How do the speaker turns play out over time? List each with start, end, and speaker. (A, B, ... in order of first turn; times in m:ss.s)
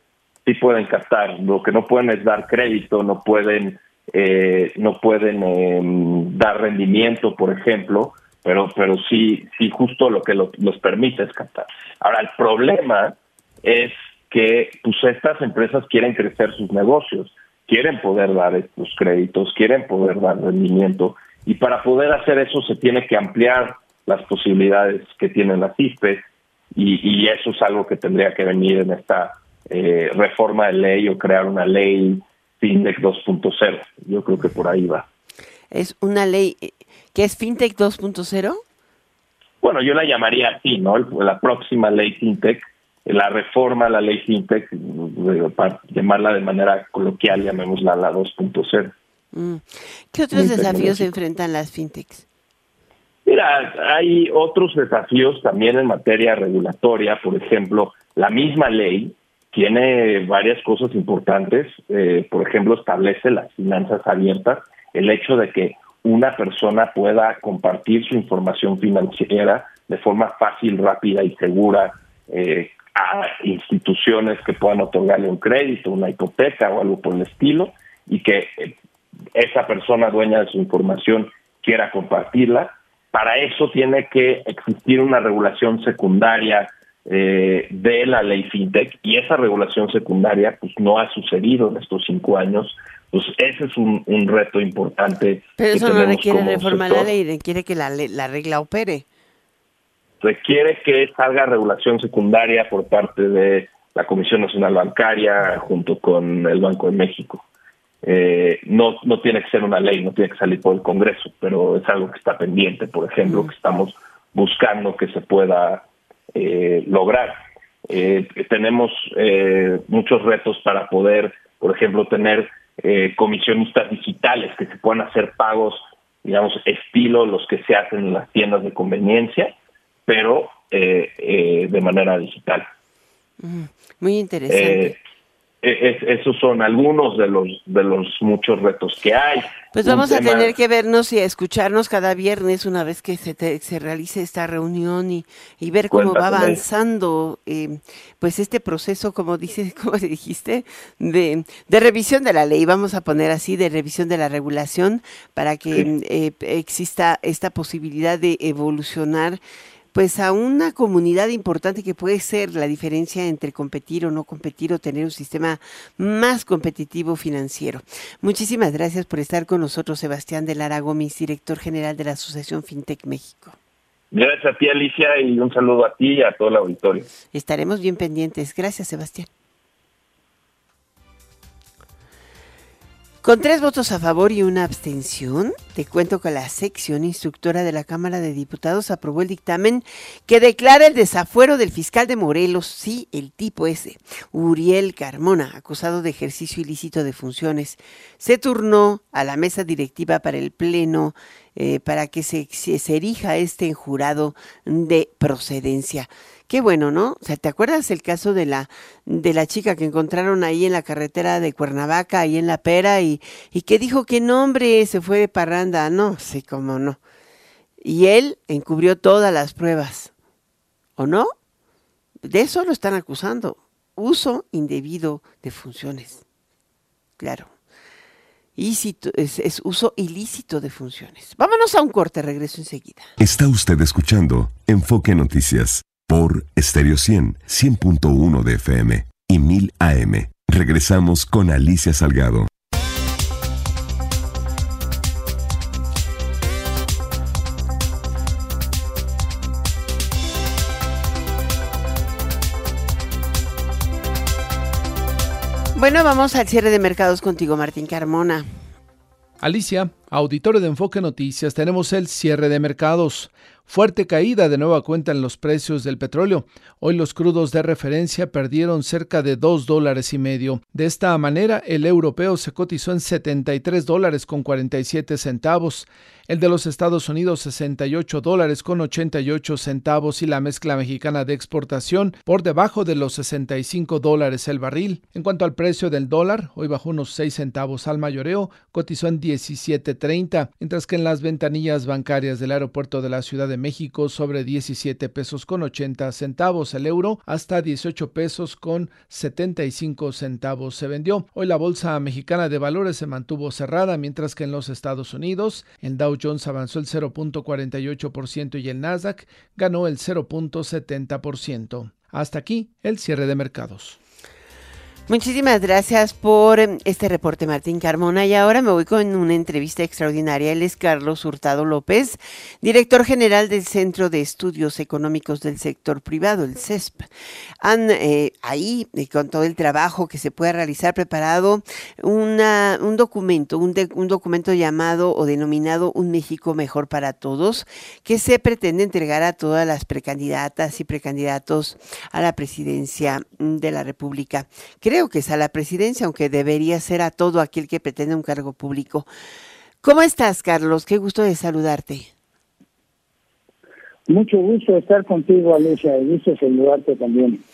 0:00.5-0:35.1 A
0:35.7-0:38.6 B
0:39.6-0:48.9 A
0:49.3-0:52.2 B
0:50.3-0:51.1 A
0:53.3-1:18.7 A
1:19.4-1:37.1 A
1:35.6-1:39.0 B
1:40.2-1:47.4 A
1:48.0-1:57.4 A
1:57.9-2:09.5 A
2:10.1-2:12.7 A
2:13.4-2:15.0 B
2:14.5-2:15.0 A
2:15.6-2:20.5 A
2:19.7-2:39.4 B
2:25.9-2:26.6 A
2:39.9-2:53.6 B
2:54.1-2:57.1 A
2:57.3-2:59.3 B
3:03.2-3:37.0 B
3:37.8-3:40.1 B
3:41.0-3:41.3 B
3:42.2-3:46.2 B
3:47.2-3:47.5 B
3:48.6-3:53.1 B
3:53.2-4:02.5 C
4:15.8-4:18.5 B
4:19.4-5:14.0 D
5:15.1-5:27.1 B
5:27.6-5:49.1 B
5:49.8-5:52.1 B
5:54.1-5:57.4 E